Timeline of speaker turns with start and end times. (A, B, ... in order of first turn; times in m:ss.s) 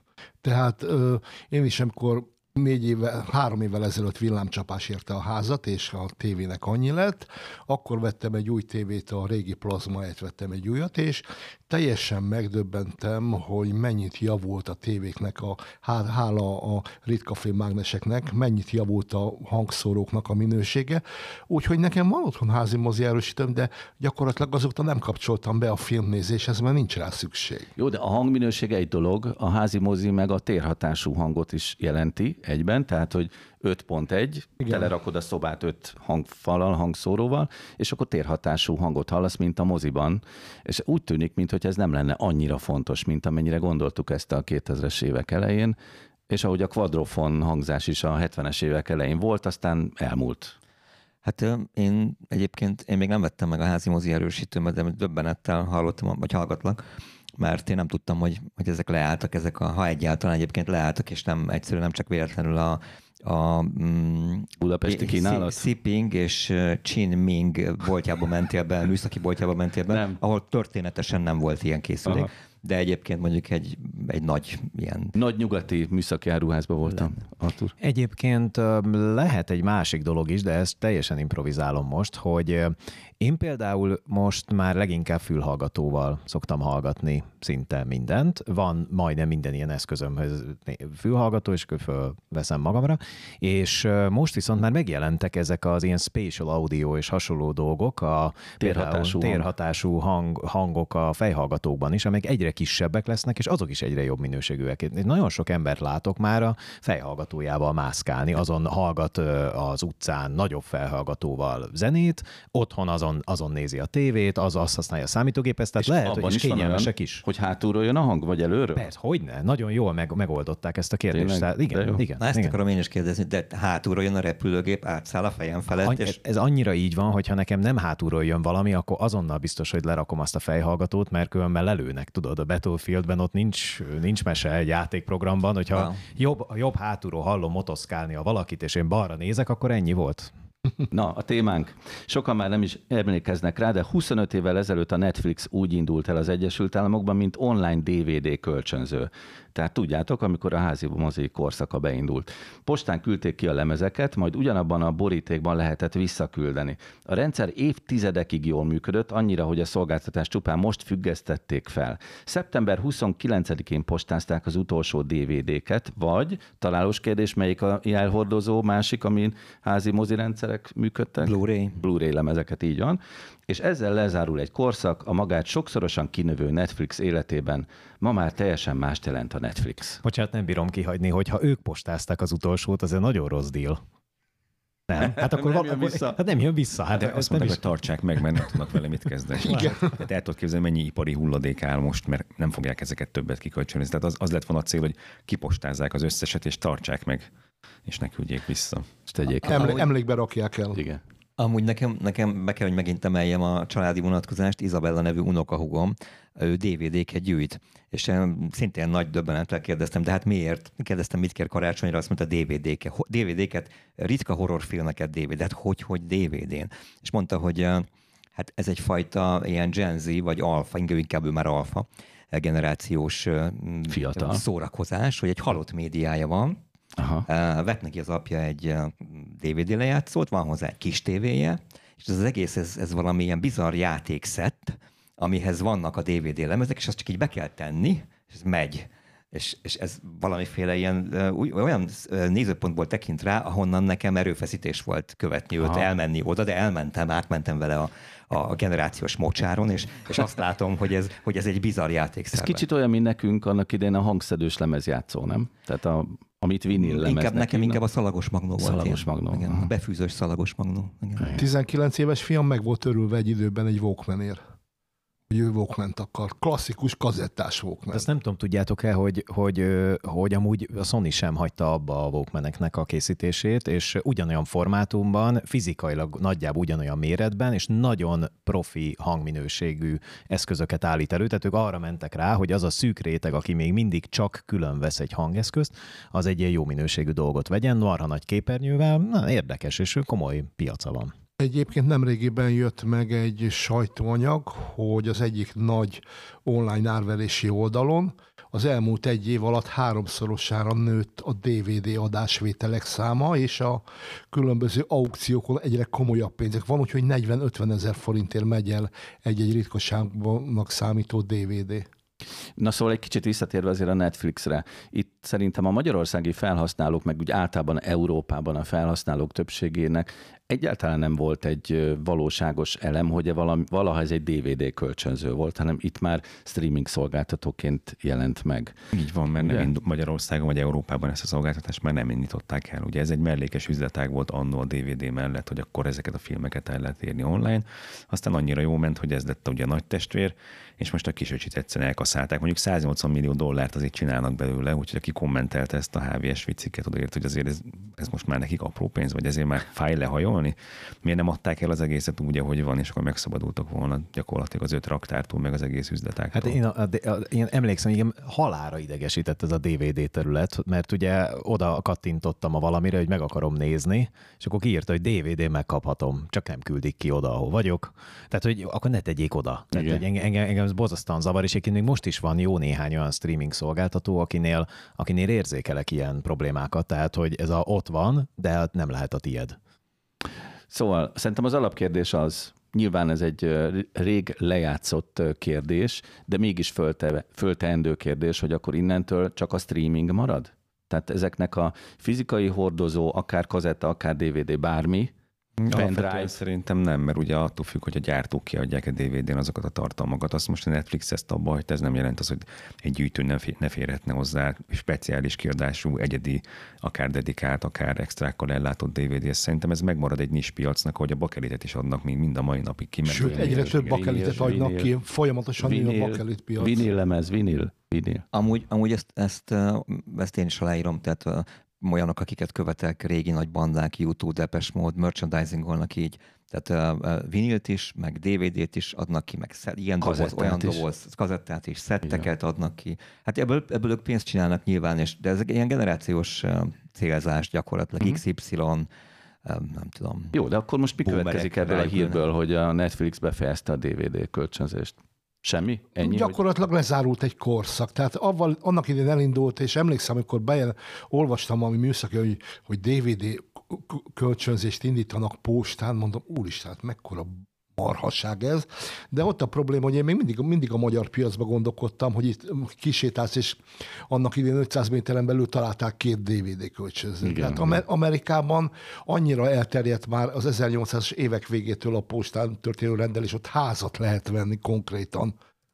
0:00.4-0:27.7 A
0:27.8-0:45.8 B
0:34.6-0:34.9 A
0:46.3-0:50.5 B
0:51.2-0:56.8 C
0:57.4-1:15.1 C
1:04.6-1:05.6 B
1:09.9-1:10.2 B
1:15.1-1:17.7 B
1:17.8-1:57.2 D
1:38.6-1:39.4 B
1:55.8-1:58.9 B
1:58.7-2:02.5 D
2:01.1-2:02.0 B
2:02.2-2:06.2 C
2:05.8-2:20.3 D
2:15.7-2:16.0 C
2:20.9-3:00.0 B
2:51.2-2:51.8 C
3:00.0-3:03.8 D
3:04.9-3:07.6 D
3:05.0-3:06.2 B
3:07.0-3:17.3 E
3:09.4-3:09.8 A
3:17.8-3:18.9 E
3:19.1-3:19.8 B
3:19.5-3:19.9 C
3:19.5-3:20.8 A
3:20.7-3:21.0 B
3:21.4-3:46.6 C
3:43.9-3:44.4 B
3:47.0-3:47.3 B
3:47.3-4:12.6 C
4:05.6-4:05.9 B
4:12.3-4:17.8 B
4:16.7-4:21.4 C
4:18.6-4:19.7 B
4:21.2-4:21.4 B
4:21.4-4:24.4 A
4:25.3-4:28.0 A
4:27.9-4:51.1 D
4:51.4-5:11.9 A
5:12.6-5:28.8 B
5:28.9-5:56.6 E
5:29.4-5:29.7 B
5:56.3-6:19.6 D
6:09.7-6:10.0 B
6:20.7-6:35.1 B
6:35.6-6:54.3 E
6:35.7-6:36.4 B
6:53.0-6:54.9 B
6:53.0-6:56.8 A
6:55.6-6:58.2 B
6:58.3-7:18.9 C
7:10.0-7:10.8 B
7:19.4-7:20.3 C
7:20.3-7:26.4 B
7:21.0-7:22.2 C
7:26.0-7:55.3 A
7:47.2-7:47.8 B